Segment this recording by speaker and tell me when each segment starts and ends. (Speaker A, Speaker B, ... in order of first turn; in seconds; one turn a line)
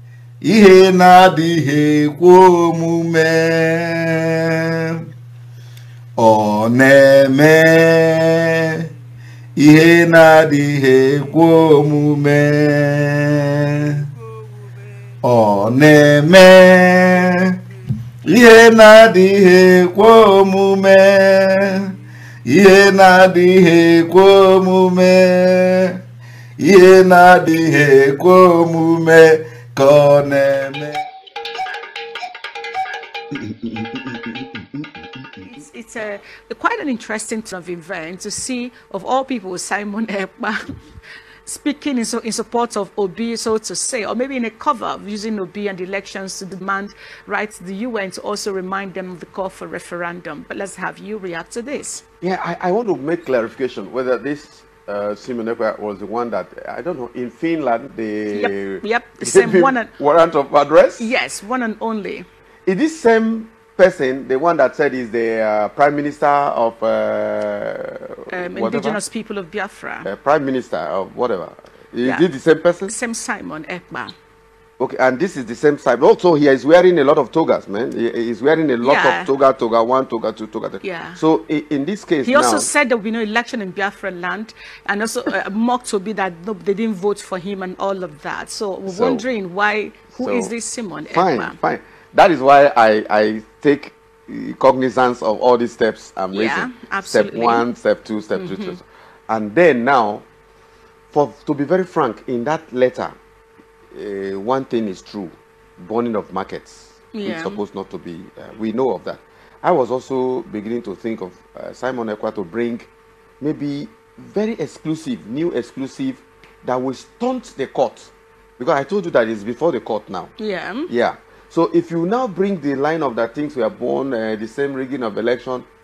Speaker A: 0.4-5.0
Speaker A: 6.2-8.9
Speaker A: 9.6-14.1
Speaker A: 15.2-17.6
Speaker A: 18.2-21.9
Speaker A: 22.4-26.0
Speaker A: 26.6-31.0
Speaker B: 35.5-40.6
Speaker B: 41.5-52.0
Speaker C: 52.2-61.1
Speaker B: 58.3-59.9
Speaker B: 61.0-62.2
Speaker C: 62.6-69.0
Speaker B: 68.3-70.1
Speaker C: 70.0-72.9
Speaker B: 72.8-74.1
Speaker C: 74.8-82.7
Speaker B: 78.8-79.3
Speaker B: 80.8-81.2
Speaker B: 82.2-91.6
Speaker C: 88.9-89.2
Speaker C: 90.2-90.5
Speaker C: 91.0-100.2
Speaker B: 96.3-97.7
Speaker B: 98.3-98.8
Speaker C: 101.1-103.2
Speaker C: 103.9-112.9
Speaker B: 107.1-107.6
Speaker C: 113.4-120.3
Speaker B: 120.4-120.9
Speaker C: 120.9-125.7